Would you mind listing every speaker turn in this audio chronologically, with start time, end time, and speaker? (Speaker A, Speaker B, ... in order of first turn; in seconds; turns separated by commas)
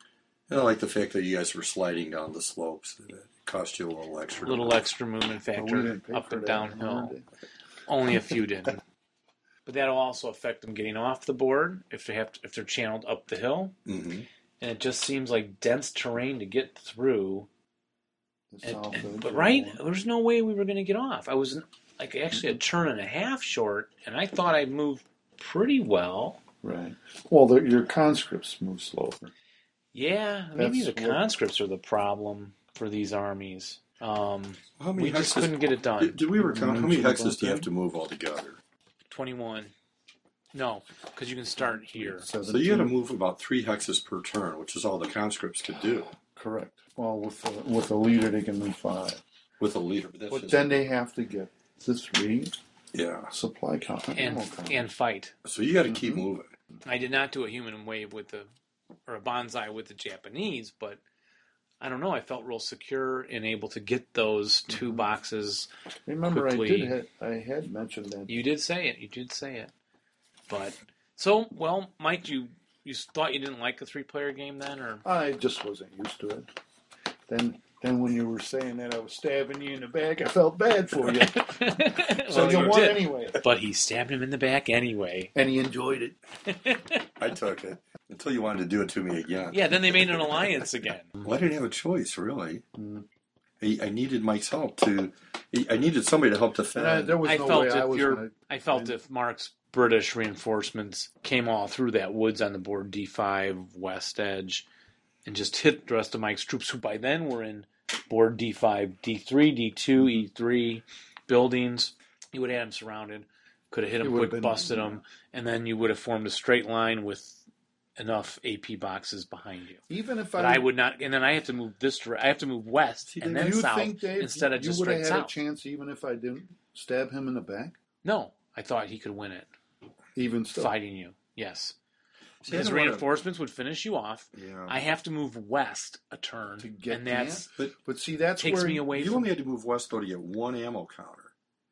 Speaker A: 0.5-4.8, Speaker B: 4.4-7.2, Speaker C: 5.5-7.2, Speaker B: 7.9-8.8, Speaker B: 9.7-13.7, Speaker A: 13.8-14.2, Speaker B: 14.6-17.5, Speaker C: 18.5-19.8, Speaker B: 18.6-26.4, Speaker C: 26.6-29.3, Speaker B: 29.9-36.2, Speaker C: 30.6-31.2, Speaker A: 34.8-38.6, Speaker C: 36.4-37.7, Speaker B: 39.1-39.7, Speaker B: 40.5-42.3, Speaker C: 41.6-43.0, Speaker A: 42.4-46.1, Speaker C: 46.2-49.2, Speaker A: 49.6-50.7, Speaker C: 50.3-52.5, Speaker A: 52.9-53.3, Speaker C: 53.3-54.8, Speaker B: 54.1-55.3, Speaker A: 55.4-56.5, Speaker C: 55.8-56.2, Speaker B: 56.8-58.5, Speaker B: 59.1-61.0, Speaker B: 61.8-65.7, Speaker C: 64.7-65.0, Speaker C: 66.1-68.3, Speaker B: 66.2-66.9, Speaker B: 68.3-69.7, Speaker B: 70.5-75.0, Speaker C: 75.0-76.5, Speaker C: 77.3-83.4, Speaker B: 81.2-85.3, Speaker A: 82.3-83.0, Speaker C: 85.3-86.2, Speaker B: 86.5-87.0, Speaker A: 87.2-90.5, Speaker B: 89.5-91.1, Speaker A: 91.2-92.6, Speaker C: 92.7-93.0, Speaker A: 93.6-97.6, Speaker C: 96.7-98.9, Speaker B: 97.2-104.7, Speaker B: 105.2-117.4, Speaker C: 114.0-115.0, Speaker B: 118.0-119.8, Speaker C: 119.9-120.7, Speaker B: 120.4-125.3, Speaker A: 123.1-123.5, Speaker C: 123.2-127.7, Speaker B: 128.0-129.5, Speaker C: 130.1-130.7, Speaker B: 130.6-131.8, Speaker A: 132.4-133.1, Speaker B: 132.5-137.5, Speaker A: 134.3-134.8, Speaker C: 136.6-138.9, Speaker B: 138.4-139.3, Speaker A: 138.9-141.3